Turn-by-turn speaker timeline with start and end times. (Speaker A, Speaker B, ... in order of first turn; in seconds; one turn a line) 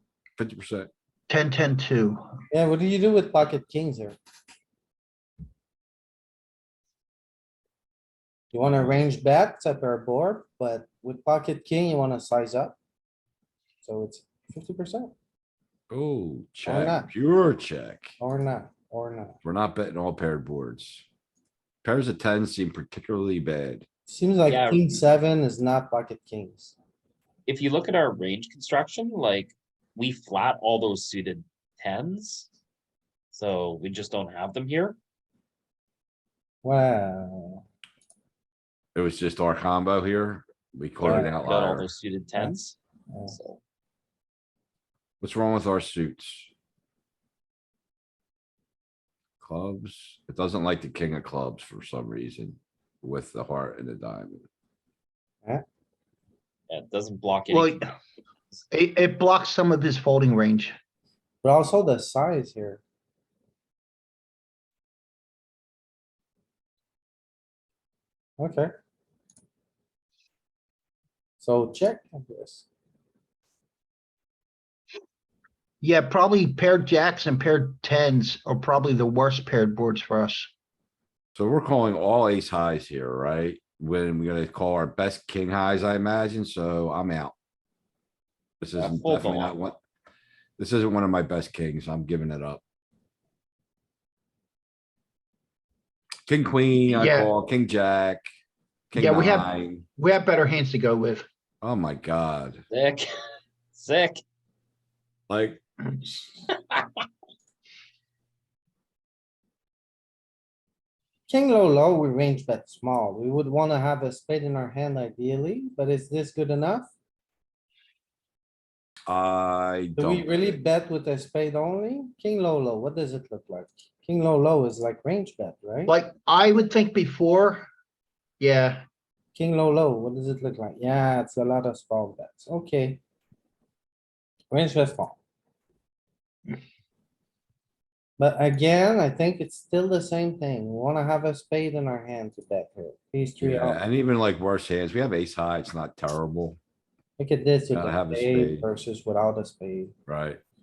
Speaker A: 0.4-0.9
Speaker B: 1.3-2.2
Speaker C: 2.5-4.2
Speaker C: 8.5-12.8
Speaker C: 13.8-15.1
Speaker A: 15.9-18.1
Speaker C: 16.6-17.1
Speaker C: 18.2-19.4
Speaker A: 19.4-21.1
Speaker A: 21.8-23.9
Speaker C: 24.1-26.8
Speaker D: 24.5-25.0
Speaker D: 27.5-32.5
Speaker D: 33.3-35.0
Speaker C: 36.6-37.6
Speaker A: 39.0-41.9
Speaker C: 41.0-41.4
Speaker D: 41.1-42.8
Speaker C: 43.1-43.4
Speaker D: 43.3-43.6
Speaker A: 45.2-46.5
Speaker A: 49.4-54.5
Speaker D: 56.7-57.9
Speaker B: 57.5-57.8
Speaker B: 58.7-60.8
Speaker C: 61.4-62.8
Speaker C: 68.4-68.7
Speaker C: 71.4-72.7
Speaker B: 75.8-80.5
Speaker A: 81.4-87.3
Speaker A: 88.6-89.8
Speaker D: 88.8-89.5
Speaker A: 90.6-92.6
Speaker A: 96.3-98.2
Speaker B: 96.9-97.3
Speaker A: 98.9-99.8
Speaker B: 99.0-101.3
Speaker A: 101.6-102.6
Speaker D: 102.7-103.1
Speaker D: 103.7-104.2
Speaker A: 105.3-105.6
Speaker D: 106.5-106.9
Speaker C: 111.3-116.9
Speaker A: 119.1-120.6
Speaker C: 120.0-125.9
Speaker B: 125.9-127.7
Speaker B: 128.4-128.9
Speaker C: 129.3-133.0
Speaker C: 134.5-135.2
Speaker C: 138.2-143.8
Speaker A: 143.4-146.6
Speaker C: 147.2-149.9
Speaker A: 147.7-148.7
Speaker A: 150.1-150.4